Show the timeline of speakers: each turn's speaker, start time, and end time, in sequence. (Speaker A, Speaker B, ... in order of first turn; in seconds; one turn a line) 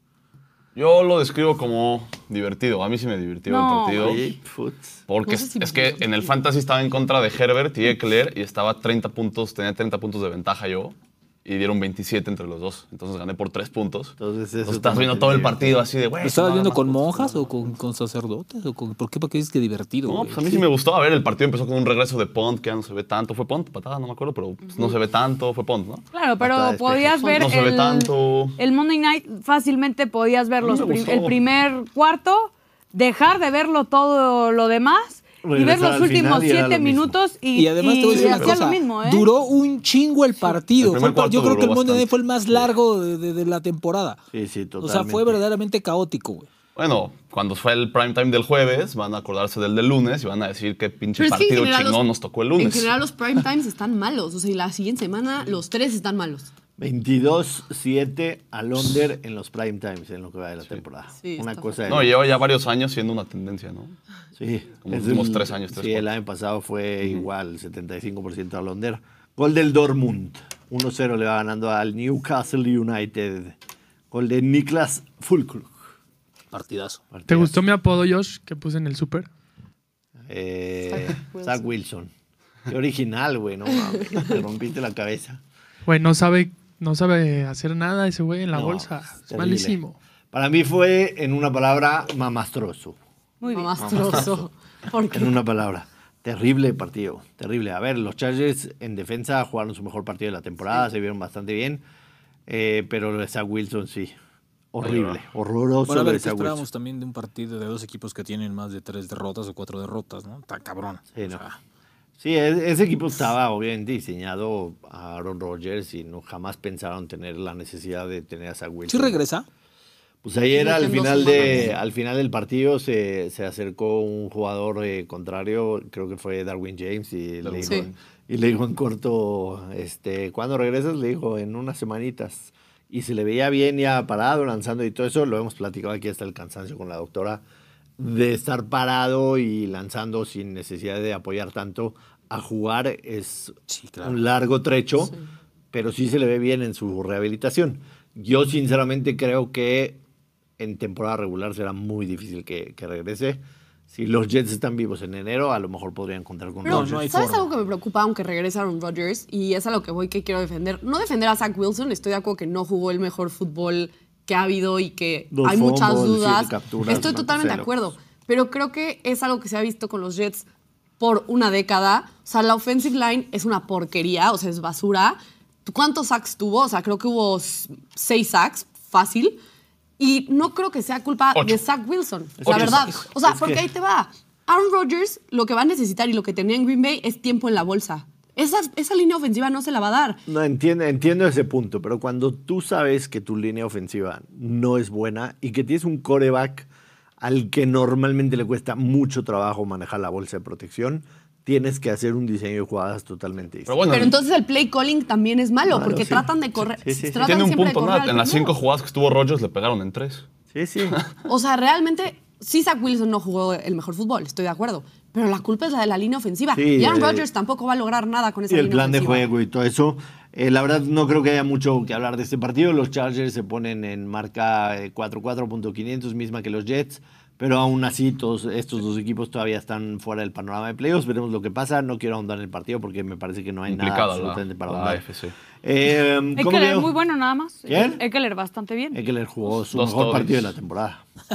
Speaker A: 0.7-4.2
Speaker B: 3.5-4.2
Speaker C: 4.0-5.0
Speaker A: 5.1-17.4
Speaker D: 5.2-6.3
Speaker C: 14.2-15.8
Speaker E: 16.2-20.6
Speaker A: 20.1-26.0
Speaker B: 26.1-39.3
Speaker C: 26.4-27.4
Speaker A: 27.3-28.6
Speaker C: 30.7-31.1
Speaker A: 30.7-31.3
Speaker C: 35.4-37.2
Speaker E: 37.5-44.2
Speaker A: 38.1-38.6
Speaker A: 40.8-42.7
Speaker C: 44.3-45.4
Speaker E: 44.8-46.5
Speaker A: 46.8-53.0
Speaker D: 51.2-52.0
Speaker D: 52.5-56.5
Speaker C: 56.8-62.2
Speaker D: 61.2-61.8
Speaker A: 61.9-64.0
Speaker C: 64.4-73.5
Speaker A: 64.8-66.1
Speaker C: 74.1-75.8
Speaker E: 76.5-77.0
Speaker C: 77.1-77.5
Speaker F: 77.3-79.3
Speaker C: 80.2-82.1
Speaker D: 80.9-81.7
Speaker C: 82.7-85.4
Speaker F: 85.9-90.0
Speaker C: 88.5-89.8
Speaker C: 90.3-93.0
Speaker B: 93.4-94.0
Speaker D: 93.5-95.3
Speaker C: 93.8-94.5
Speaker C: 95.1-101.8
Speaker C: 102.5-104.2
Speaker C: 104.7-106.6
Speaker A: 104.8-105.2
Speaker E: 105.9-111.6
Speaker C: 111.1-111.4
Speaker C: 112.2-119.2
Speaker E: 118.9-119.5
Speaker C: 120.2-137.4
Speaker D: 120.5-121.7
Speaker A: 127.4-127.9
Speaker D: 127.6-127.9
Speaker C: 138.0-145.2
Speaker E: 143.7-144.2
Speaker C: 145.7-150.0
Speaker C: 150.6-157.1
Speaker E: 156.6-157.5
Speaker D: 156.6-170.4
Speaker C: 165.3-167.7
Speaker D: 171.0-179.4
Speaker D: 180.0-190.2
Speaker A: 181.3-181.6
Speaker C: 182.4-183.7
Speaker A: 182.4-183.0
Speaker C: 190.3-196.7
Speaker C: 197.2-203.8
Speaker A: 203.7-204.2
Speaker D: 203.9-208.6
Speaker C: 205.7-207.4
Speaker A: 207.2-210.2
Speaker C: 210.5-211.0
Speaker D: 211.3-219.3
Speaker C: 216.5-217.2
Speaker C: 218.5-235.0
Speaker A: 233.7-235.3
Speaker C: 235.6-236.9
Speaker B: 236.4-239.0
Speaker C: 237.7-238.0
Speaker C: 238.9-241.0
Speaker A: 239.7-240.5